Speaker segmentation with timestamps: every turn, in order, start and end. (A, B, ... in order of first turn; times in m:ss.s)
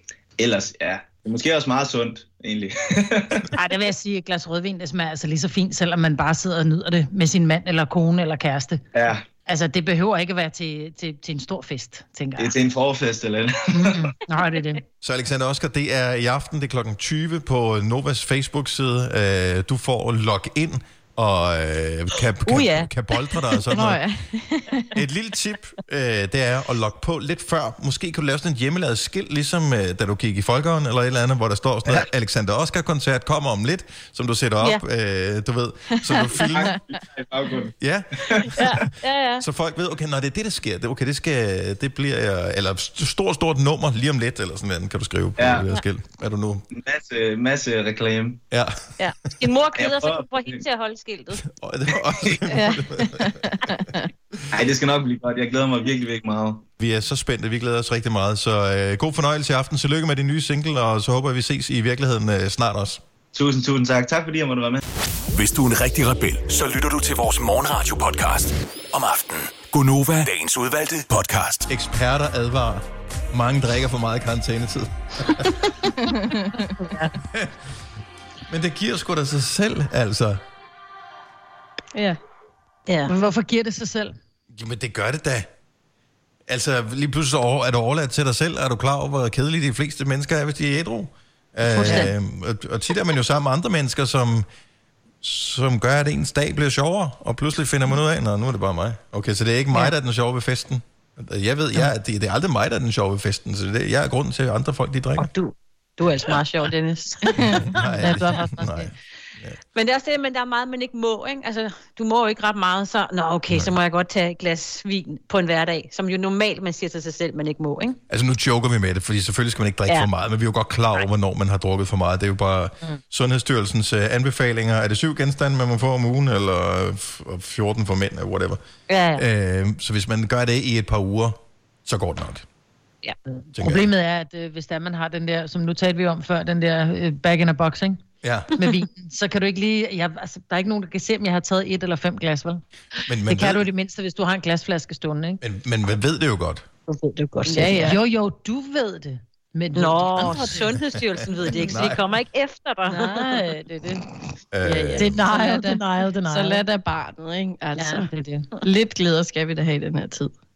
0:00.4-0:03.4 A
0:03.5-0:08.8 B
0:08.9-0:09.2 A
0:09.4-0:12.6 B
0:12.4-0:14.1 A
0:13.7-0:14.8 B
0:15.0-0:24.0 C
0:22.5-0:22.9 D
0:23.7-0:24.9 E
0:25.0-0:36.8 C
0:36.1-0:36.8 E
0:36.4-0:37.7 A
0:37.8-0:38.1 C
0:38.3-0:38.6 A
0:38.6-0:39.4 D
0:39.4-0:46.6 C
0:45.4-0:45.6 A
0:46.7-0:48.4 A
0:48.5-0:48.8 C
0:49.0-0:51.4 D
0:49.8-0:50.6 A
0:51.5-0:53.4 C
0:52.5-0:54.1 E
0:54.5-0:56.6 A
0:56.8-1:03.0 C
1:03.3-1:04.8 A
1:05.3-1:11.7 F
1:11.7-1:15.4 C
1:16.0-1:16.7 E
1:16.8-1:17.1 D
1:18.5-1:20.4 C
1:23.1-1:24.2 B
1:24.5-1:25.5 C
1:26.5-1:34.4 C
1:31.7-1:32.1 D
1:35.2-1:45.3 C
1:45.2-1:47.6 D
1:47.6-1:49.6 C
1:48.0-1:48.9 B
1:49.7-1:58.0 D
1:58.1-2:08.6 C
2:08.9-2:09.2 D
2:09.1-2:12.4 C
2:13.6-2:13.9 C
2:13.6-2:18.0 B
2:18.2-2:18.5 C
2:18.6-2:22.6 B
2:23.1-2:23.6 C
2:23.3-2:25.4 B
2:25.4-2:26.6 C
2:26.9-2:27.9 D
2:27.5-2:28.0 E
2:27.5-2:30.6 B
2:29.8-2:33.3 D
2:31.6-2:32.0 C
2:32.9-2:34.0 B
2:34.5-2:35.2 C
2:34.7-2:36.6 B
2:35.0-2:38.1 E
2:37.8-2:38.5 B
2:38.6-2:40.3 E